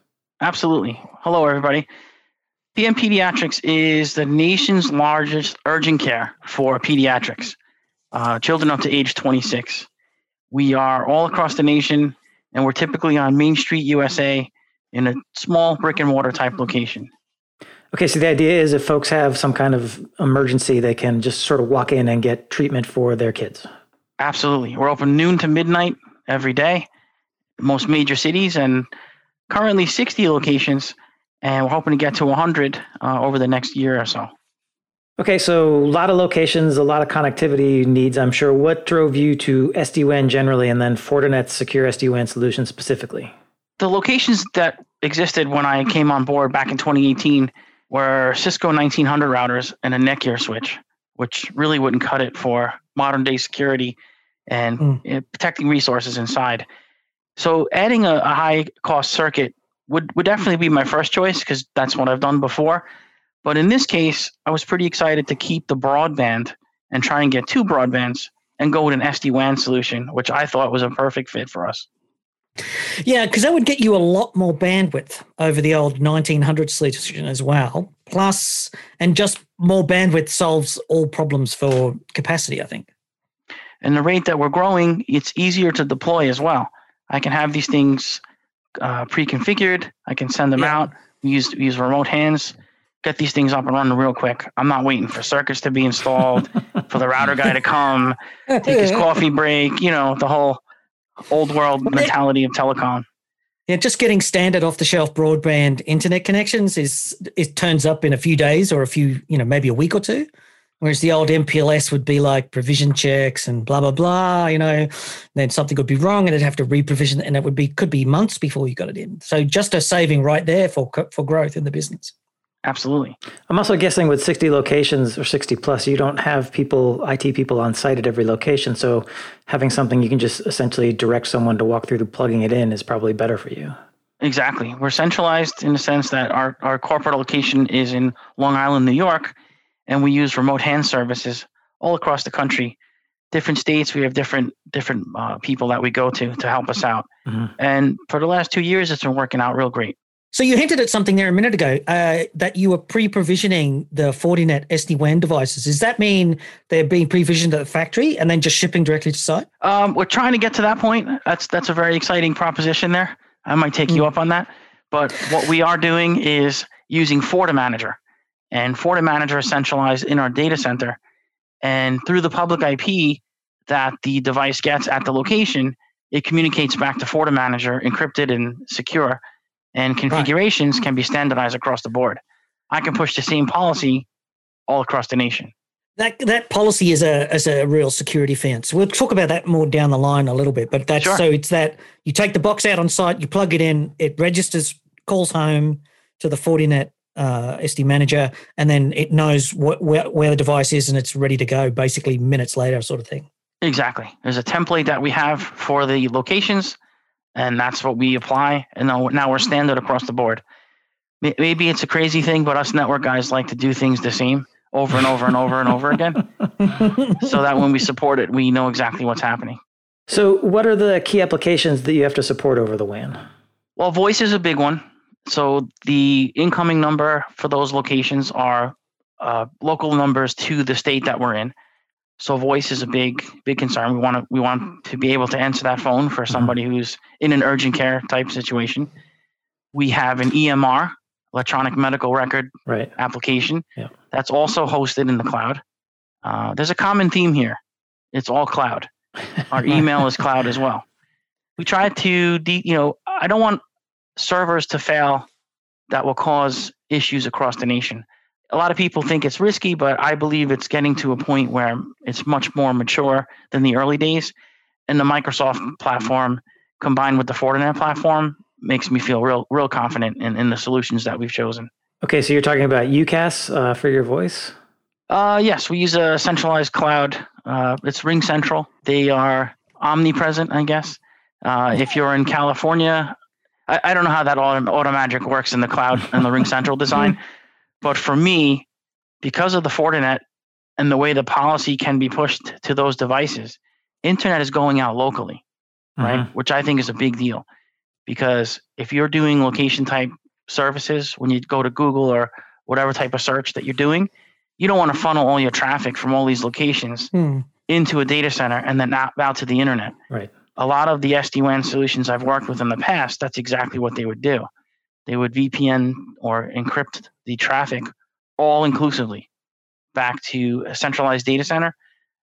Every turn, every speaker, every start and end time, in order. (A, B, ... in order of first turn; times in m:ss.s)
0:00.4-0:01.9 A
0:02.8-0:07.6 A
0:08.1-0:09.9 A
0:10.5-0:17.1 A
0:17.9-0:23.7 B
0:24.2-0:26.9 A
0:27.6-0:28.9 A
0:29.5-0:34.3 A
0:35.2-0:43.3 B
0:43.8-0:54.0 A
0:54.5-0:56.7 A
0:57.4-1:02.8 A
1:03.4-1:11.9 A
1:13.0-1:22.9 C
1:23.8-1:28.2 A
1:28.8-1:40.6 A
1:38.5-1:39.0 C
1:41.3-1:43.1 A
1:43.7-1:50.3 C
1:50.8-2:02.1 C
2:02.6-2:03.2 A
2:03.5-2:13.8 B
2:14.2-2:19.4 A
2:19.9-2:22.8 A
2:23.3-2:30.0 A
2:30.3-2:39.5 C
2:39.6-2:48.0 A
2:48.5-2:51.0 A
2:51.6-2:59.2 A
2:59.8-3:04.1 A
3:04.7-3:05.5 A
3:06.0-3:23.3 C
3:11.0-3:11.2 A
3:23.6-3:26.8 A
3:27.4-3:30.4 A
3:31.2-3:36.2 A
3:36.7-3:37.2 C
3:37.2-3:39.6 A
3:40.1-3:43.2 B
3:43.8-3:51.5 A
3:52.2-3:58.9 A
3:59.7-4:05.6 A
4:06.2-4:07.6 A
4:08.1-4:08.9 A
4:09.5-4:10.8 A
4:11.6-4:13.6 A
4:14.2-4:15.3 A
4:15.9-4:24.3 A
4:24.9-4:31.7 A
4:32.0-4:34.6 B
4:35.1-4:43.2 A
4:43.7-4:47.2 A
4:47.8-4:48.7 A
4:49.2-4:50.2 A
4:50.8-4:55.4 A
4:56.0-4:56.3 B
4:56.0-4:57.5 A
4:58.1-5:07.1 A
5:07.1-5:07.5 C
5:07.7-5:10.0 A
5:10.6-5:14.5 A
5:15.1-5:19.3 A
5:20.0-5:21.7 A